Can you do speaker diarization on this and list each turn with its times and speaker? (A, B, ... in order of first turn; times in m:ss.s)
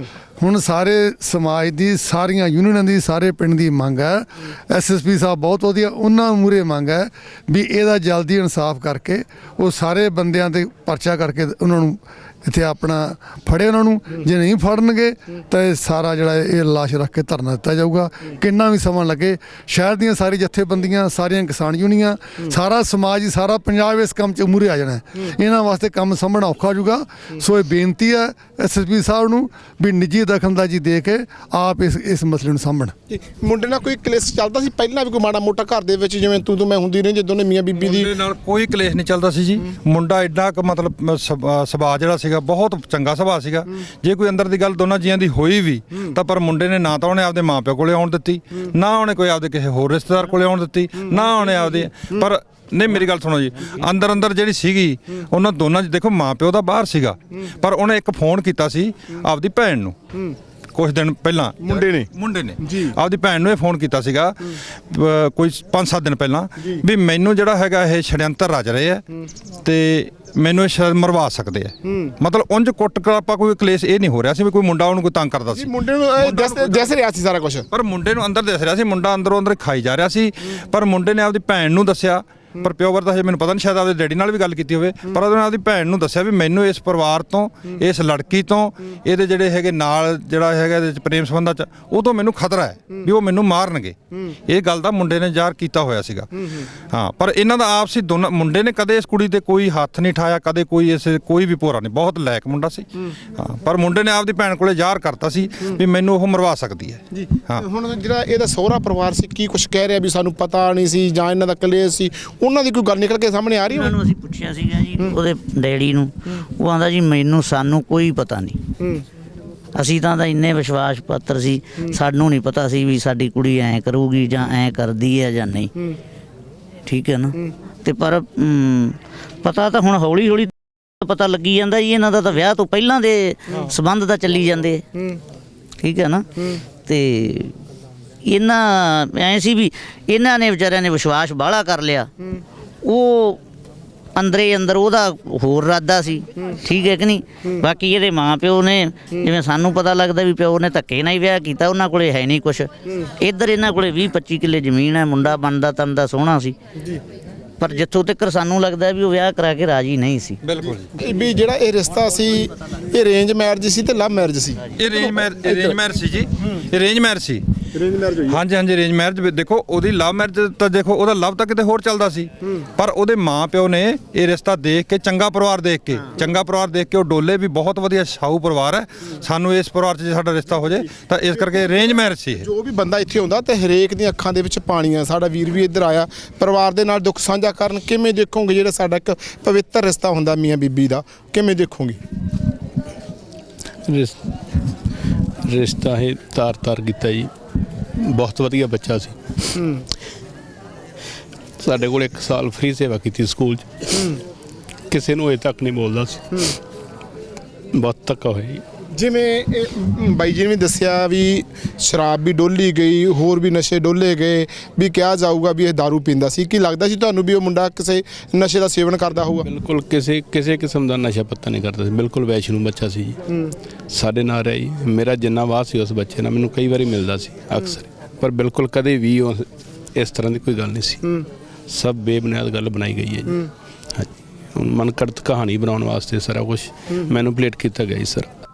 0:00.4-0:32.9 A
0:33.1-0:38.1 B
0:37.8-1:00.0 C
1:00.7-1:09.0 C
1:01.6-1:02.1 B
1:09.6-1:17.0 C
1:15.5-1:17.6 B
1:17.7-1:34.0 C
1:34.5-1:36.3 C
1:36.9-1:47.6 C
1:47.1-1:54.0 B
1:53.7-1:58.6 D
1:59.7-2:05.7 D
2:06.8-2:14.8 D
2:15.8-2:16.3 D
2:16.8-2:17.6 D
2:18.3-2:22.1 D
2:22.8-2:23.4 D
2:24.2-2:36.6 D
2:37.6-2:40.4 D
2:40.4-2:40.9 C
2:40.9-2:44.7 B
2:44.8-2:47.4 C
2:47.7-2:48.4 B
2:48.3-3:02.5 C
3:02.4-3:12.0 B
3:13.8-3:14.3 E
3:15.4-3:17.3 E
3:18.0-3:19.6 E
3:19.6-3:19.8 B
3:21.6-3:24.1 E
3:24.9-3:26.5 E
3:27.7-3:28.6 E
3:29.0-3:39.5 B
3:39.4-3:43.2 E
3:43.9-3:51.0 E
3:51.7-3:58.3 E